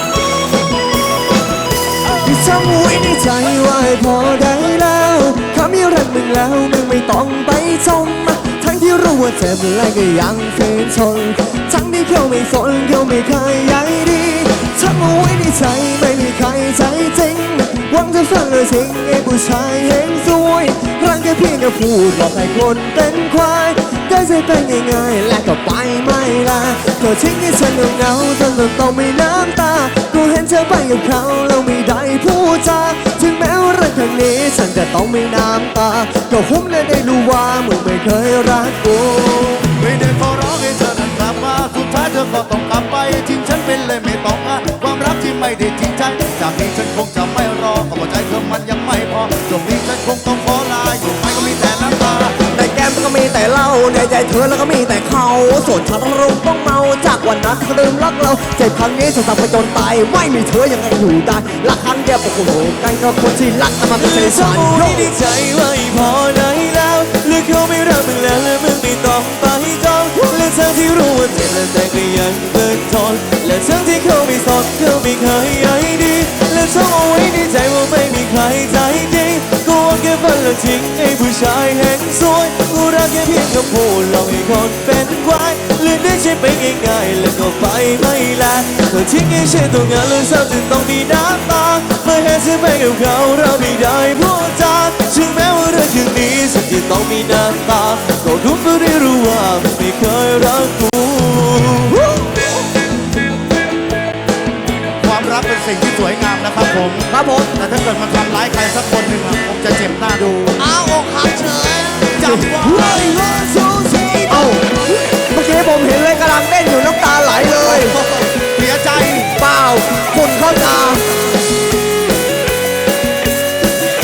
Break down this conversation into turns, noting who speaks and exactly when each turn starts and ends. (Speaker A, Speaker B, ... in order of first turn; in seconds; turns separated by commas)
Speaker A: 2.2-39.7, Speaker B: 39.8-52.5, Speaker A: 52.5-65.1, Speaker C: 63.9-102.0, Speaker B: 105.0-110.7, Speaker A: 107.1-107.5, Speaker C: 110.6-112.1, Speaker B: 112.1-113.0, Speaker A: 112.2-118.0, Speaker B: 118.4-119.3, Speaker A: 119.4-121.2